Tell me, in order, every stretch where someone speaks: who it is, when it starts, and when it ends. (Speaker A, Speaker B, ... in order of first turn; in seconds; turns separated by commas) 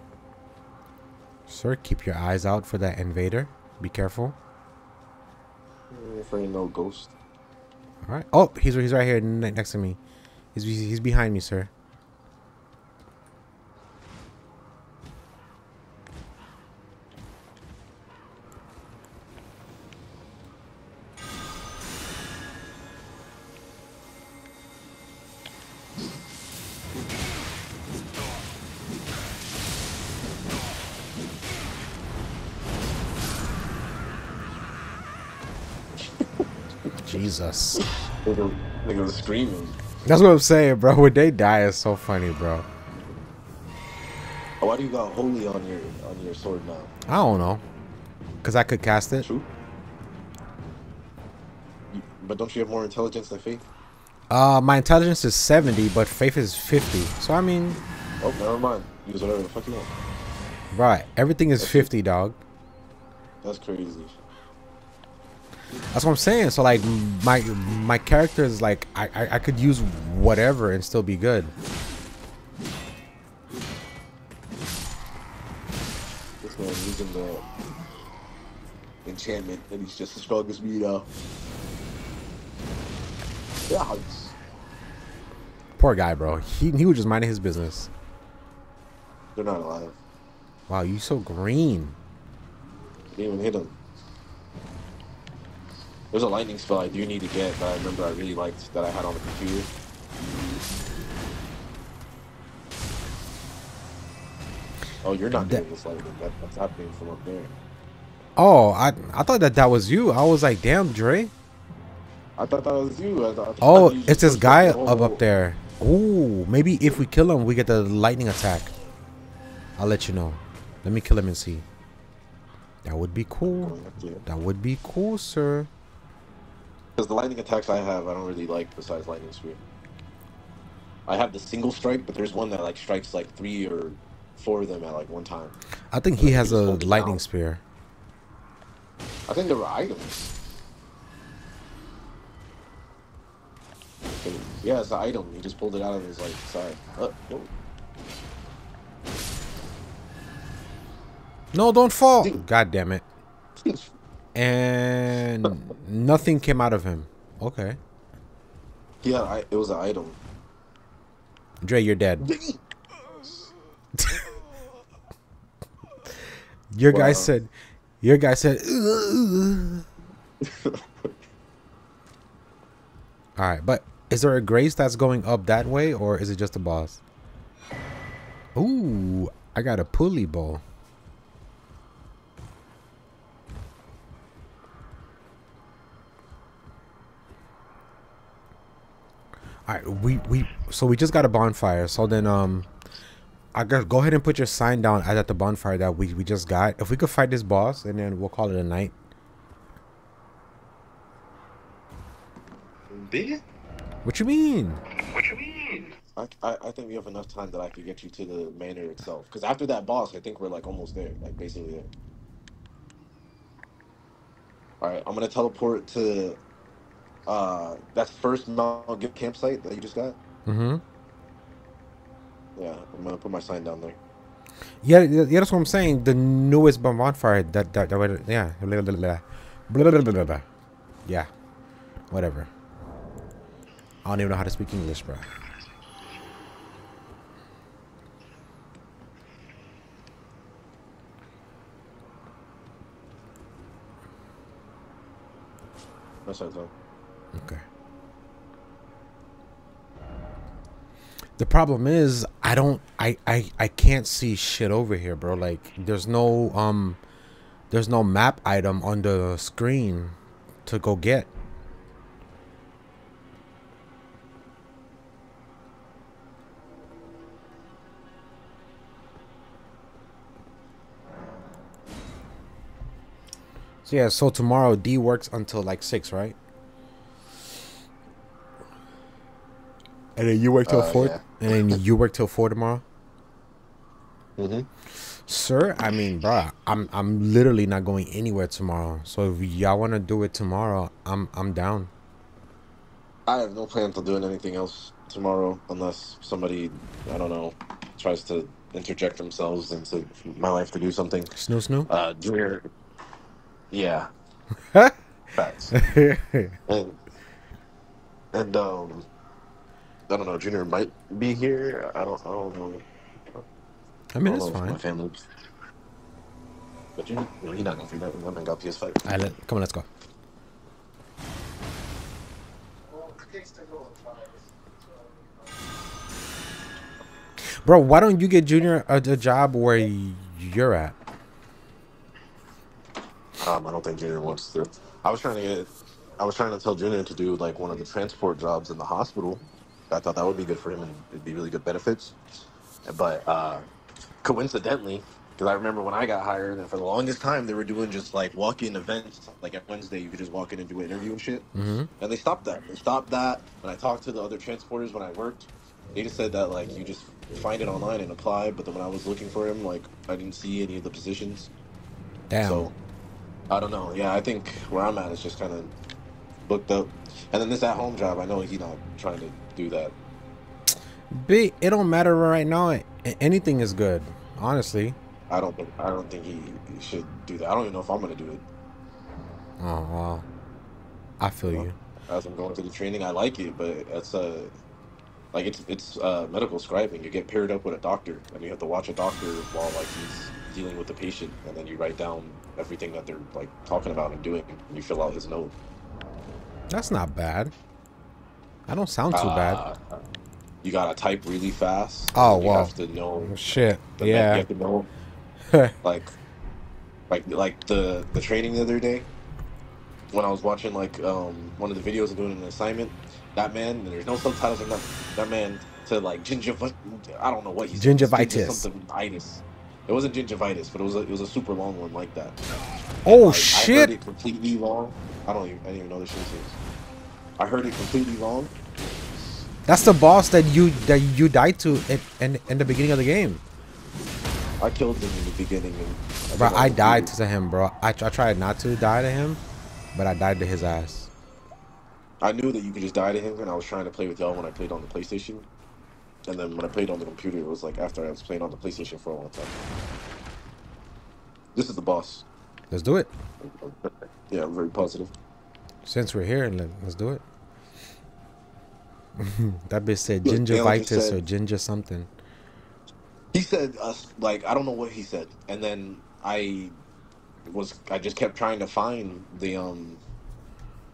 Speaker A: 1.5-4.4, Speaker B: 5.9-7.1, Speaker A: 8.0-10.0, Speaker A: 10.5-11.7, Speaker A: 37.0-37.8, Speaker B: 37.8-39.8, Speaker A: 40.0-42.7, Speaker B: 44.6-46.9, Speaker A: 47.1-47.6, Speaker A: 48.4-49.3, Speaker B: 49.2-49.5, Speaker B: 51.9-53.6, Speaker A: 54.3-57.8, Speaker B: 58.2-59.9, Speaker A: 60.7-62.4, Speaker B: 61.6-61.9, Speaker B: 63.4-64.1, Speaker A: 65.9-71.5, Speaker B: 76.4-77.4, Speaker B: 79.0-81.1, Speaker B: 83.7-84.3, Speaker A: 85.8-87.9, Speaker B: 89.4-90.0, Speaker A: 90.7-92.0, Speaker B: 93.1-93.7, Speaker B: 96.1-99.7, Speaker B: 105.0-107.5, Speaker A: 105.4-105.6, Speaker A: 108.4-111.3, Speaker B: 112.4-115.2, Speaker A: 113.6-118.7, Speaker A: 119.8-121.6, Speaker A: 122.8-125.7, Speaker B: 123.5-124.2, Speaker B: 127.0-129.6, Speaker B: 131.1-135.6, Speaker A: 135.9-137.6, Speaker B: 136.2-137.2, Speaker B: 139.3-140.3, Speaker B: 144.2-147.5, Speaker A: 151.5-153.0, Speaker A: 154.3-157.8, Speaker B: 159.0-160.2, Speaker A: 161.6-162.3, Speaker B: 162.2-162.6, Speaker A: 163.9-164.3, Speaker A: 166.7-169.9, Speaker B: 166.9-167.3, Speaker B: 170.4-170.8, Speaker A: 173.4-177.0, Speaker A: 178.6-180.6, Speaker A: 189.7-192.7, Speaker A: 193.5-198.9, Speaker B: 202.9-203.4, Speaker A: 204.1-204.8, Speaker B: 206.0-211.9, Speaker B: 214.8-216.4, Speaker B: 217.3-220.2, Speaker A: 220.4-220.8, Speaker B: 222.6-224.0, Speaker A: 224.8-230.4, Speaker B: 229.8-230.3, Speaker A: 232.1-232.5, Speaker A: 234.1-235.3, Speaker B: 246.3-246.7, Speaker A: 247.3-247.6, Speaker A: 251.4-257.0, Speaker A: 257.7-261.3, Speaker A: 273.9-276.4, Speaker A: 280.2-282.8, Speaker B: 280.7-281.8, Speaker B: 284.4-284.7, Speaker A: 285.0-291.9, Speaker B: 293.3-301.4, Speaker A: 301.3-301.9, Speaker B: 301.9-302.7, Speaker B: 303.7-304.1, Speaker B: 305.3-305.8, Speaker A: 305.7-306.6, Speaker B: 306.7-307.0, Speaker B: 308.3-309.1, Speaker B: 310.1-313.4, Speaker A: 314.1-314.8, Speaker B: 314.2-315.2, Speaker B: 317.0-319.0, Speaker A: 319.0-319.9, Speaker B: 323.2-324.0, Speaker A: 327.6-331.0, Speaker B: 333.4-342.2, Speaker B: 342.9-343.7, Speaker B: 344.2-351.5, Speaker A: 351.6-351.9, Speaker B: 352.0-361.5, Speaker A: 362.3-362.7, Speaker B: 362.4-362.7, Speaker B: 363.5-365.7, Speaker B: 366.4-369.9, Speaker A: 371.1-375.0, Speaker B: 375.3-378.4, Speaker A: 379.6-380.3, Speaker A: 381.2-381.8, Speaker B: 381.5-384.5, Speaker B: 385.3-395.5, Speaker A: 396.7-397.5, Speaker A: 398.7-399.6, Speaker B: 399.1-400.0, Speaker B: 400.6-404.9, Speaker A: 402.1-404.4, Speaker A: 405.5-405.8, Speaker B: 405.8-406.1, Speaker B: 407.1-409.1, Speaker B: 410.1-422.4, Speaker A: 417.8-418.6, Speaker A: 423.1-423.9, Speaker B: 423.1-426.6, Speaker B: 427.4-428.5, Speaker A: 429.7-433.4, Speaker B: 434.6-437.1, Speaker A: 436.4-439.4, Speaker A: 439.9-441.1, Speaker B: 442.2-445.4, Speaker B: 446.3-449.6, Speaker B: 451.6-452.2, Speaker A: 452.7-453.1, Speaker B: 453.4-455.1, Speaker A: 455.9-457.2, Speaker A: 459.2-462.1, Speaker B: 460.2-461.2, Speaker B: 463.3-466.7, Speaker B: 467.5-470.0